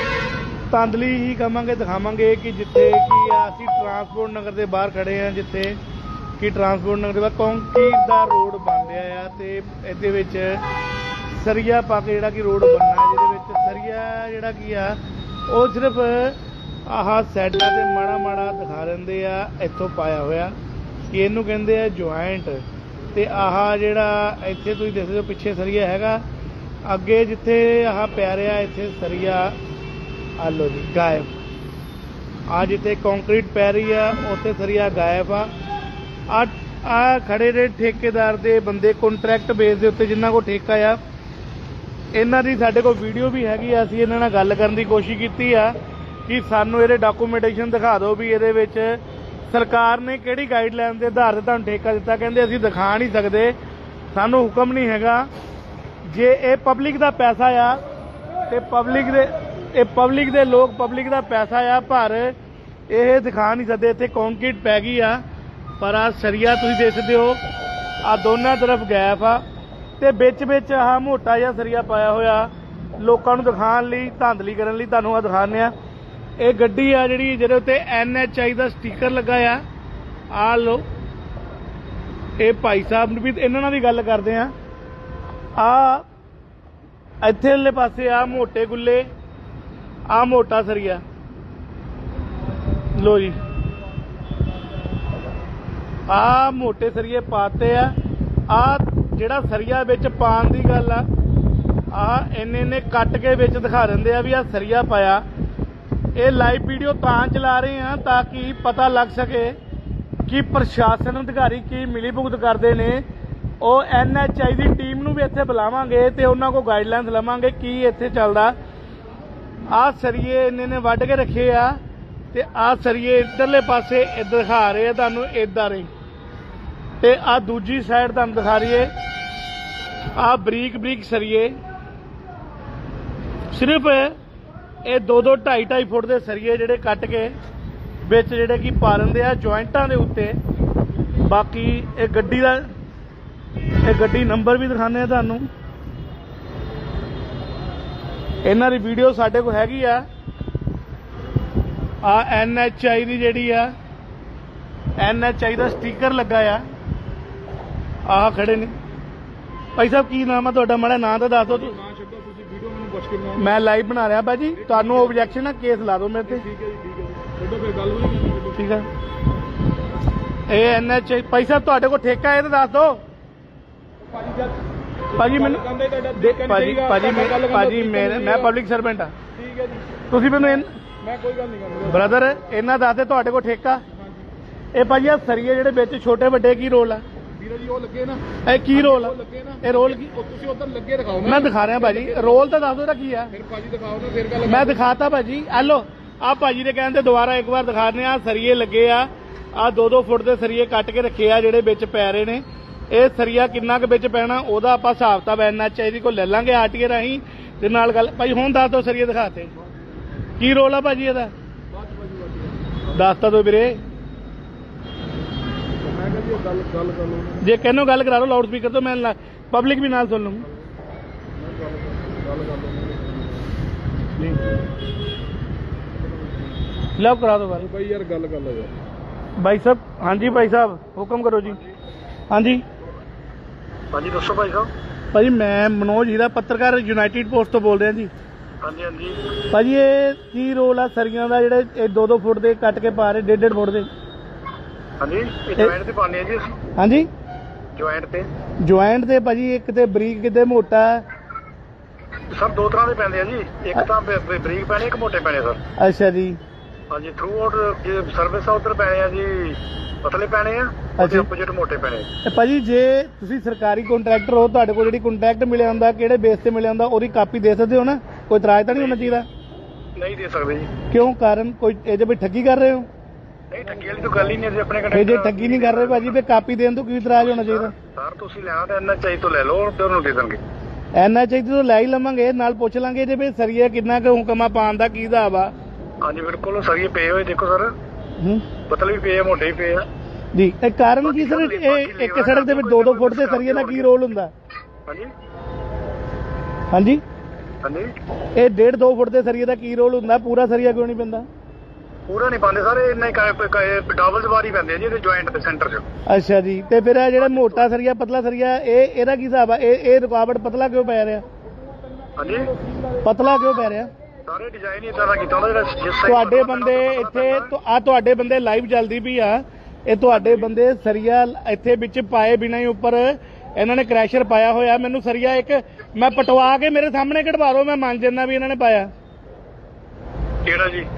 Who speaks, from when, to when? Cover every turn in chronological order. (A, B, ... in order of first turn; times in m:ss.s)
0:00.7-0:05.8 A
0:06.4-0:10.6 A
0:11.3-0:20.5 A
0:21.1-0:26.2 A
0:26.8-0:29.6 A
0:30.4-0:31.3 A
0:32.5-0:35.5 A
0:36.3-0:41.0 A
0:42.1-0:45.7 A
0:46.2-0:53.5 A
0:54.1-0:55.3 A
0:56.1-0:57.8 A
0:58.5-1:02.3 A
1:02.9-1:05.2 A
1:05.8-1:07.4 A
1:08.0-1:09.4 A
1:10.0-1:15.7 A
1:16.4-1:19.6 A
1:20.3-1:20.8 A
1:22.4-1:24.5 A
1:25.6-1:26.0 A
1:27.2-1:29.0 A
1:30.1-1:31.0 A
1:33.0-1:33.4 A
1:36.1-1:37.9 A
1:38.5-1:41.0 A
1:41.9-1:45.2 A
1:46.2-1:49.5 A
1:50.3-1:53.0 A
1:53.6-1:58.5 A
1:59.7-2:01.8 A
2:02.3-2:05.9 A
2:07.0-2:08.9 A
2:10.2-2:11.5 A
2:13.5-2:14.1 A
2:14.8-2:17.3 A
2:18.0-2:20.4 A
2:21.2-2:22.6 A
2:23.8-2:25.4 A
2:28.4-2:30.0 A
2:32.0-2:33.7 A
2:35.0-2:36.6 A
2:38.0-2:38.7 A
2:39.8-2:41.8 A
2:41.4-2:43.6 B
2:43.4-2:46.4 A
2:44.5-2:45.3 B
2:46.2-2:48.6 B
2:48.5-2:48.8 A
2:50.5-2:53.0 A
2:54.0-2:58.5 B
2:55.2-2:55.6 A
2:56.2-2:59.1 A
2:59.3-3:02.3 B
3:00.1-3:00.7 A
3:01.9-3:03.8 A
3:03.9-3:04.3 B
3:04.7-3:07.0 A
3:07.4-3:12.6 B
3:08.4-3:10.1 A
3:11.2-3:13.3 A
3:13.3-3:15.0 B
3:14.4-3:29.5 A
3:30.4-3:31.3 A
3:31.7-3:32.9 B
3:32.9-3:33.8 A
3:35.8-3:37.4 B
3:37.4-3:40.4 A
3:41.4-3:43.5 B
3:45.9-3:46.6 B
3:47.0-3:47.7 A
3:47.6-3:48.7 B
3:49.4-3:51.6 A
3:52.3-3:52.6 A
3:53.9-3:54.7 C
3:55.1-3:58.1 A
3:58.6-3:59.3 C
3:59.5-4:03.9 A
4:05.0-4:06.5 C
4:06.8-4:07.1 A
4:07.7-4:08.3 C
4:08.6-4:11.0 A
4:12.3-4:15.6 C
4:15.8-4:16.4 A
4:16.9-4:22.1 C
4:21.0-4:21.3 A
4:22.2-4:29.2 A
4:30.0-4:30.7 C
4:30.9-4:32.9 A
4:33.5-4:36.2 C
4:34.9-4:37.7 A
4:37.1-4:40.4 C
4:40.9-4:45.5 A
4:46.0-4:47.7 C
4:48.2-4:48.5 A
4:48.6-4:49.9 C
4:50.3-4:54.3 A
4:51.0-4:53.9 C
4:56.7-4:57.0 A
4:57.6-4:57.9 C
4:58.3-5:01.2 A
5:02.1-5:05.8 C
5:06.1-5:11.2 A
5:11.9-5:13.1 B
5:12.2-5:12.5 C
5:13.0-5:13.9 A
5:14.2-5:17.5 C
5:16.0-5:28.9 A
5:20.1-5:20.4 C
5:30.4-5:30.9 C